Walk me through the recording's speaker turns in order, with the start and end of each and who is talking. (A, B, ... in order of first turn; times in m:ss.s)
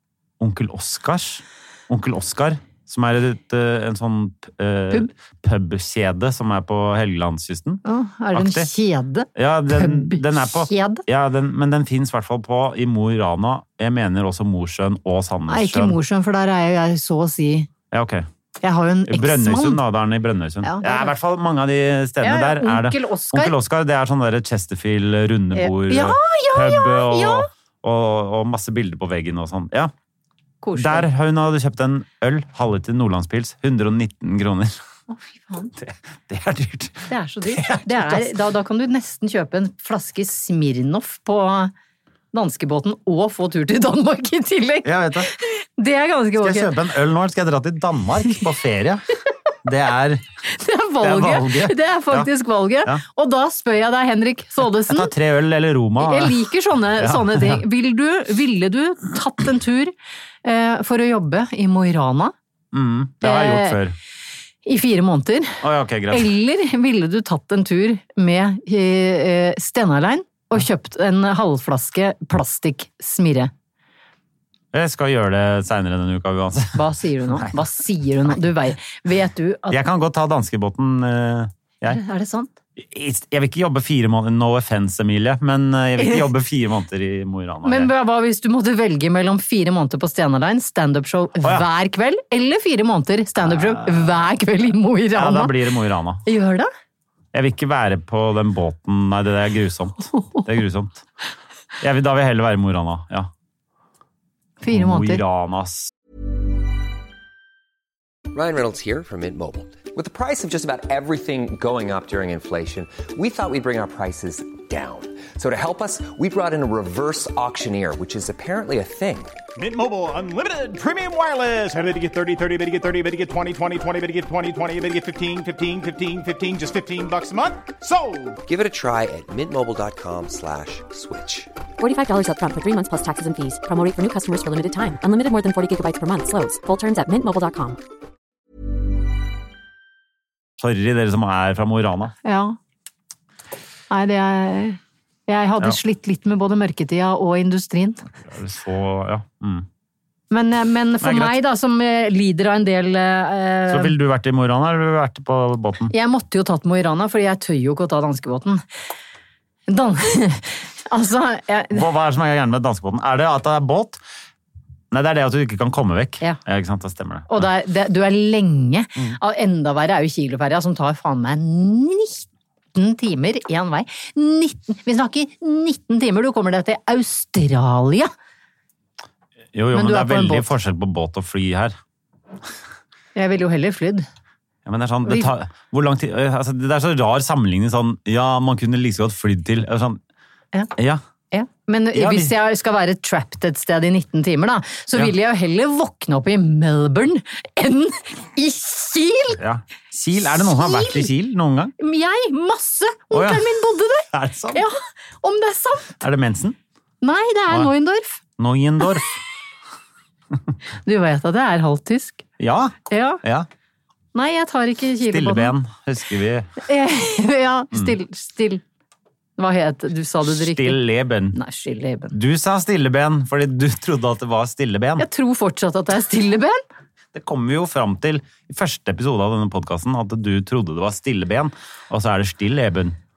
0:00.4-0:07.8 A
0:07.8-0:11.0 B
0:08.3-0:08.7 A
0:09.4-0:16.0 A
0:15.5-0:17.7 B
0:17.9-0:18.3 A
0:18.6-0:19.8 B
0:19.1-0:29.9 A
0:20.6-0:21.1 B
0:22.2-0:23.5 B
0:25.5-0:27.5 B
0:30.6-0:31.1 B
0:30.8-0:34.8 A
0:35.1-0:35.7 B
0:35.7-0:38.3 A
0:37.1-0:41.7 B
0:42.3-0:46.7 B
0:44.8-0:45.3 A
0:46.4-0:49.1 A
0:49.6-0:50.2 A
0:50.5-0:55.1 B
0:51.0-0:52.3 A
0:54.8-0:56.4 A
0:56.0-0:59.9 B
0:57.0-0:57.6 A
1:00.4-1:02.3 B
1:02.7-1:03.9 A
1:03.2-1:03.8 B
1:04.6-1:13.5 B
1:05.6-1:06.3 A
1:14.7-1:17.6 A
1:16.7-1:19.8 B
1:19.7-1:22.0 A
1:21.8-1:22.5 B
1:22.8-1:27.9 A
1:26.0-1:26.3 B
1:27.6-1:35.6 B
1:31.4-1:31.7 A
1:33.4-1:34.2 A
1:35.1-1:36.2 A
1:36.2-1:36.7 B
1:37.3-1:41.0 A
1:40.1-1:40.4 B
1:41.8-1:43.3 A
1:44.6-1:45.2 B
1:44.7-1:45.9 A
1:48.3-1:59.3 C
1:59.6-2:08.4 D
2:08.4-2:11.5 C
2:11.8-2:17.8 E
2:20.6-2:22.1 A
2:22.2-2:22.6 B
2:23.9-2:28.0 B
2:28.2-2:29.7 A
2:30.3-2:33.9 B
2:31.0-2:31.4 A
2:33.7-2:35.9 A
2:35.9-2:38.6 B
2:39.7-2:41.8 B
2:41.7-2:44.0 A
2:44.9-2:47.5 A
2:47.3-2:58.1 B
2:59.5-3:01.8 A
2:59.7-3:00.5 B
3:03.1-3:04.0 B
3:04.6-3:10.0 A
3:10.8-3:11.0 A
3:11.3-3:19.4 B
3:11.9-3:12.3 A
3:19.4-3:21.7 A
3:20.2-3:21.1 B
3:21.8-3:26.0 B
3:23.1-3:23.5 A
3:24.1-3:24.6 A
3:26.0-3:26.6 A
3:27.0-3:28.2 B
3:28.4-3:29.2 A
3:30.8-3:32.2 B
3:32.4-3:33.5 A
3:32.9-3:33.2 B
3:34.1-3:35.5 B
3:35.0-3:36.5 A
3:36.6-3:38.6 B
3:39.4-3:42.1 B
3:40.2-3:41.4 A
3:42.1-3:45.1 A
3:45.0-3:46.6 B
3:47.1-3:53.0 A